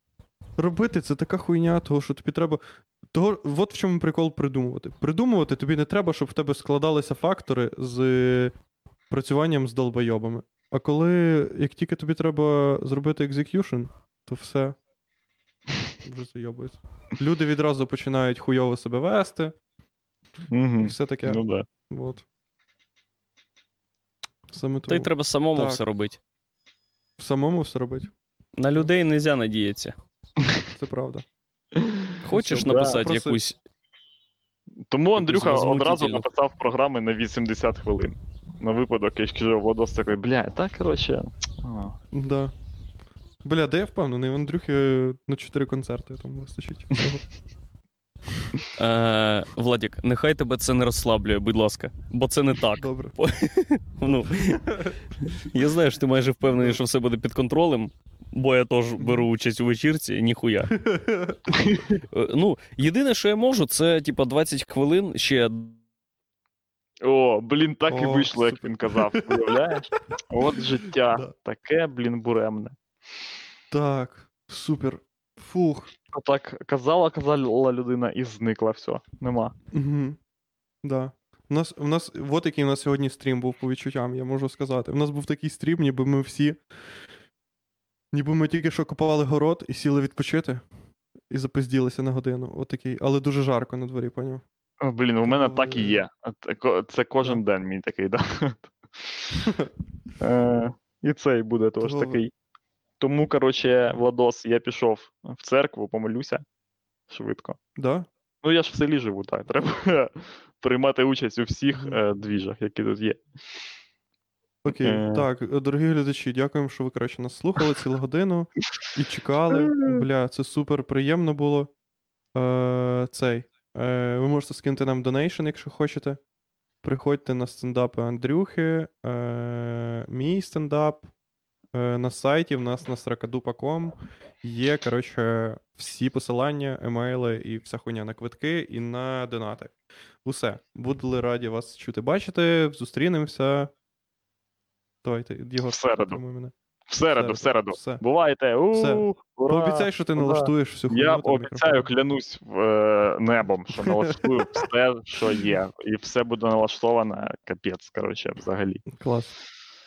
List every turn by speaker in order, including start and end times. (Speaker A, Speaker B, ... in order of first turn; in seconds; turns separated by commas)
Speaker A: 0.6-8.5, Speaker A: 9.1-14.8, Speaker A: 16.0-19.5, Speaker B: 20.5-21.6, Speaker A: 20.8-22.2, Speaker A: 24.5-25.8, Speaker C: 24.9-26.2, Speaker A: 27.2-28.1, Speaker C: 28.6-29.9, Speaker A: 30.7-31.2, Speaker B: 31.8-33.0, Speaker C: 32.2-33.6, Speaker A: 32.3-33.4, Speaker B: 34.9-41.9, Speaker C: 35.2-36.3, Speaker A: 42.1-42.5, Speaker A: 43.4-47.2, Speaker C: 48.8-60.8, Speaker A: 52.8-53.1, Speaker A: 54.4-54.9, Speaker A: 56.5-56.8, Speaker A: 59.0-59.2, Speaker A: 60.7-61.5, Speaker B: 61.5-62.0, Speaker C: 62.1-65.8, Speaker B: 67.0-72.7, Speaker A: 67.9-69.6, Speaker A: 70.6-71.3, Speaker A: 73.7-75.9, Speaker B: 76.1-79.5, Speaker A: 79.7-80.2, Speaker A: 80.8-87.0, Speaker A: 88.1-90.6, Speaker A: 91.3-94.4, Speaker B: 94.8-99.3, Speaker A: 95.2-96.0, Speaker A: 99.3-99.7, Speaker B: 100.2-102.3, Speaker A: 101.8-102.2, Speaker B: 103.0-106.4, Speaker B: 107.1-107.6, Speaker A: 107.8-108.1, Speaker B: 108.4-113.2, Speaker A: 111.7-112.0, Speaker A: 114.6-121.7, Speaker B: 114.7-115.3, Speaker B: 119.5-120.0, Speaker A: 122.3-126.2, Speaker A: 126.8-131.1, Speaker A: 131.7-143.7, Speaker A: 145.0-146.5, Speaker B: 145.6-146.2, Speaker B: 146.9-158.8, Speaker A: 147.1-148.0, Speaker A: 148.7-151.8, Speaker A: 153.8-154.3, Speaker A: 158.9-159.3